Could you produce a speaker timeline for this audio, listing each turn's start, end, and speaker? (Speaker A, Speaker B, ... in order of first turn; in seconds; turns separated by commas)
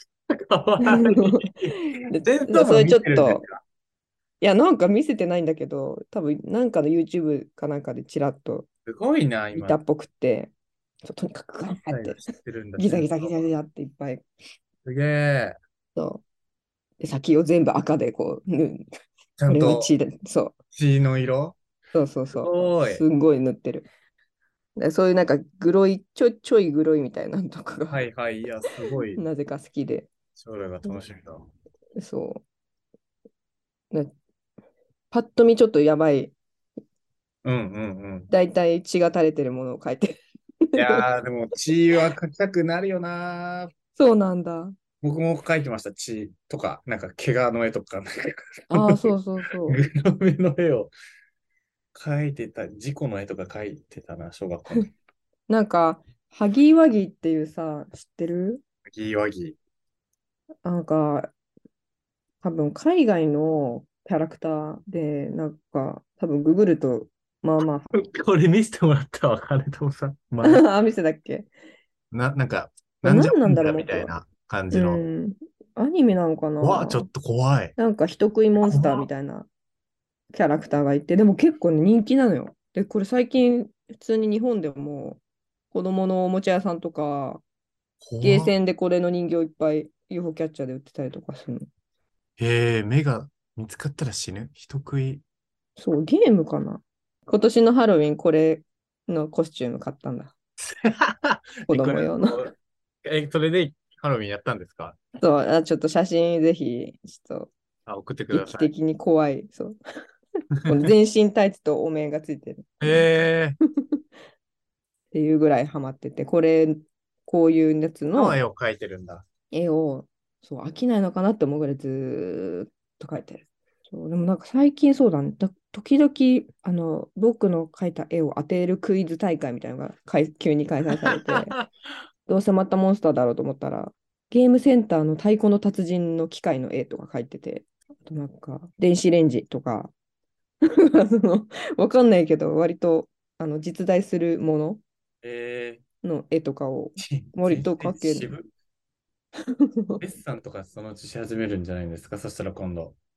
Speaker A: 0.3-3.5, Speaker B: 0.8-3.4, Speaker B: 4.4-8.7, Speaker A: 8.8-9.8, Speaker B: 9.5-10.5, Speaker B: 11.0-14.2, Speaker A: 11.9-13.5, Speaker A: 14.8-15.6, Speaker B: 15.9-16.2, Speaker B: 17.0-18.9, Speaker A: 19.4-19.9, Speaker B: 19.5-20.5, Speaker A: 20.7-21.6, Speaker B: 21.9-23.9, Speaker A: 22.3-23.0, Speaker B: 24.8-28.0, Speaker A: 27.9-29.2, Speaker B: 29.1-30.1, Speaker A: 30.4-31.5, Speaker B: 32.0-32.4, Speaker B: 35.1-36.4, Speaker A: 37.4-38.3, Speaker B: 38.3-41.0, Speaker A: 40.8-43.7, Speaker B: 44.0-44.7, Speaker A: 45.0-49.1, Speaker B: 48.7-49.8, Speaker A: 49.6-50.9, Speaker A: 51.9-54.9, Speaker B: 55.5-58.6, Speaker A: 58.9-59.6, Speaker B: 60.6-61.3, Speaker B: 62.4-67.9, Speaker A: 67.9-70.6, Speaker B: 70.4-71.5, Speaker A: 72.1-75.0, Speaker B: 73.0-74.1, Speaker B: 74.7-77.1, Speaker A: 76.6-77.7, Speaker B: 77.8-79.5, Speaker A: 78.6-79.1, Speaker B: 80.3-87.4, Speaker A: 88.0-88.5, Speaker B: 88.2-91.7, Speaker A: 92.4-95.2, Speaker B: 95.8-100.3, Speaker A: 100.7-102.5, Speaker B: 101.7-102.5, Speaker A: 103.0-105.0, Speaker B: 105.2-107.5, Speaker A: 107.8-108.7, Speaker B: 108.3-109.8, Speaker B: 110.7-113.0, Speaker A: 112.8-113.6, Speaker B: 115.1-118.4, Speaker A: 118.1-119.2, Speaker B: 119.5-131.6, Speaker A: 131.1-131.7, Speaker B: 132.3-139.9, Speaker B: 140.8-144.8, Speaker A: 145.2-145.8, Speaker B: 146.0-148.3, Speaker A: 147.0-148.5, Speaker B: 149.5-150.0, Speaker A: 150.0-152.9